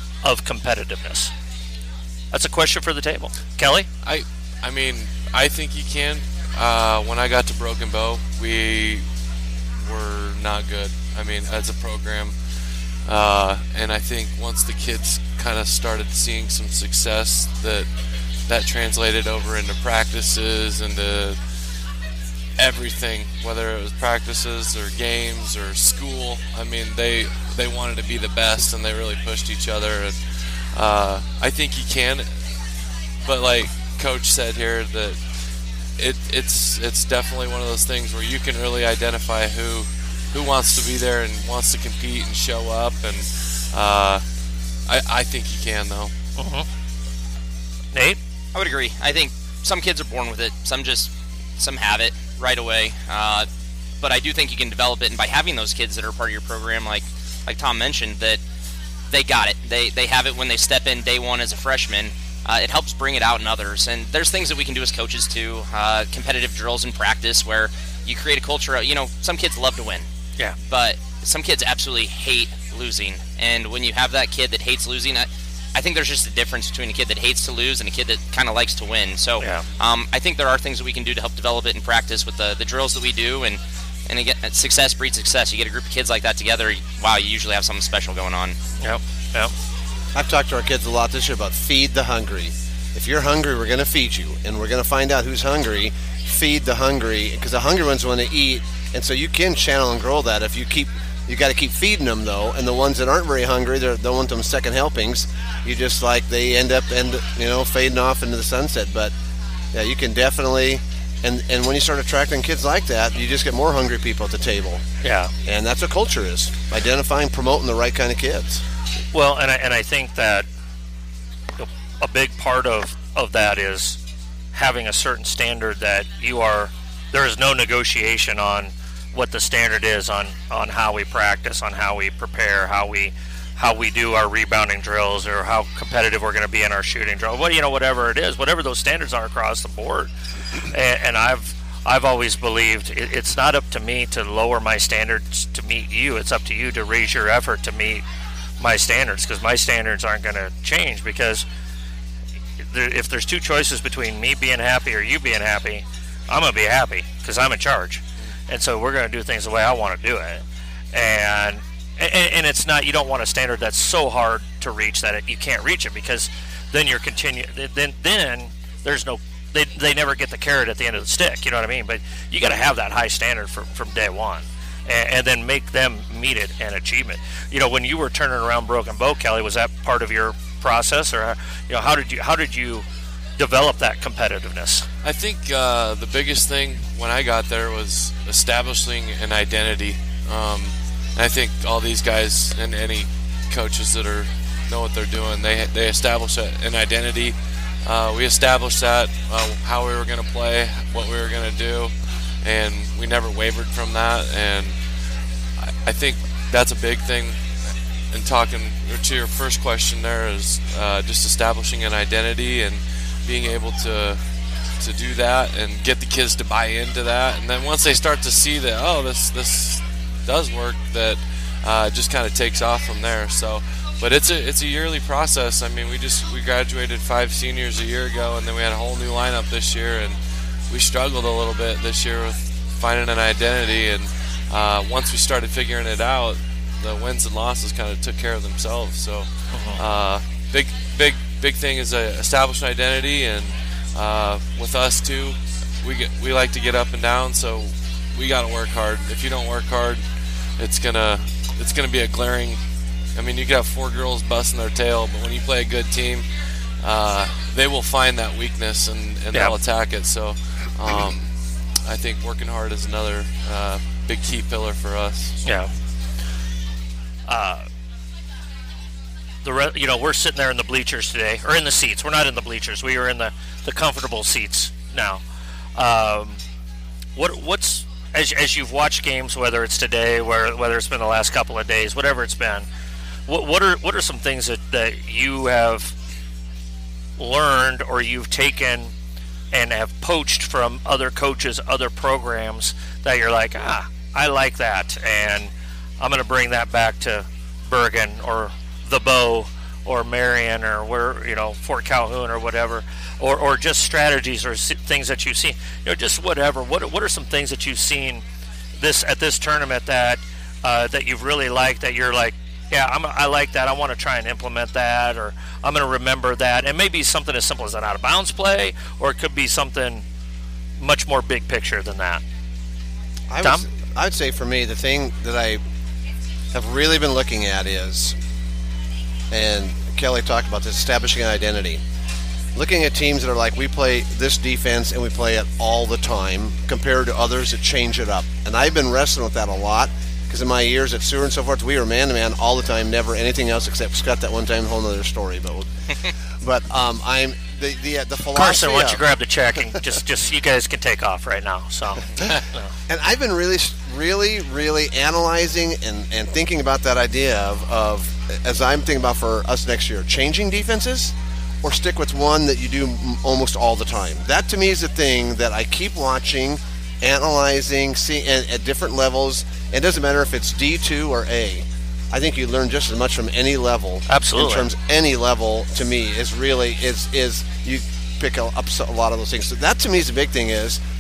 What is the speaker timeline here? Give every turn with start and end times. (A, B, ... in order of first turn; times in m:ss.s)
0:00.2-0:01.3 A
0:02.3-0:03.9 A
0:04.0-0:09.0 B
0:09.8-0:12.4 B
0:13.1-0:17.9 B
0:18.5-0:21.4 B
0:22.6-0:32.3 B
0:33.2-0:35.2 B
0:36.0-0:44.2 B
0:44.9-0:46.1 B
0:46.4-0:46.7 A
0:47.9-0:48.2 A
0:48.5-0:53.5 C
0:54.0-0:58.4 C
0:59.1-1:10.1 C
1:10.7-1:28.6 C
1:19.4-1:19.6 A
1:28.8-1:29.5 A
1:30.2-1:49.1 D
1:49.7-1:54.8 D
1:55.0-1:55.3 A
1:55.4-1:58.6 D
1:59.1-2:00.5 A
2:01.6-2:04.0 A
2:04.5-2:20.1 A
2:20.7-2:28.0 A
2:28.6-2:31.4 A
2:32.6-3:02.8 A
3:03.4-3:04.9 A
3:05.0-3:24.8 B
3:25.6-3:27.4 B
3:28.1-3:34.2 B
3:34.8-3:50.2 B
3:50.7-4:10.0 B
3:59.5-3:59.8 A
4:10.6-4:12.6 B
4:13.2-4:16.3 B
4:16.8-4:21.3 B
4:21.8-4:25.4 B
4:25.4-4:25.7 A
4:27.3-4:27.7 A
4:29.4-4:35.2 A
4:35.8-4:36.4 A
4:37.2-4:42.7 A
4:43.3-4:46.0 A
4:47.2-4:48.9 A
4:49.5-5:08.2 A
5:08.8-5:20.0 A
5:20.8-5:22.2 A
5:23.3-5:25.6 D
5:26.5-5:28.2 D
5:29.3-5:31.8 D
5:32.6-5:45.7 D
5:46.4-5:49.0 D
5:48.4-5:52.7 A
5:52.9-6:20.8 D
6:14.1-6:14.7 A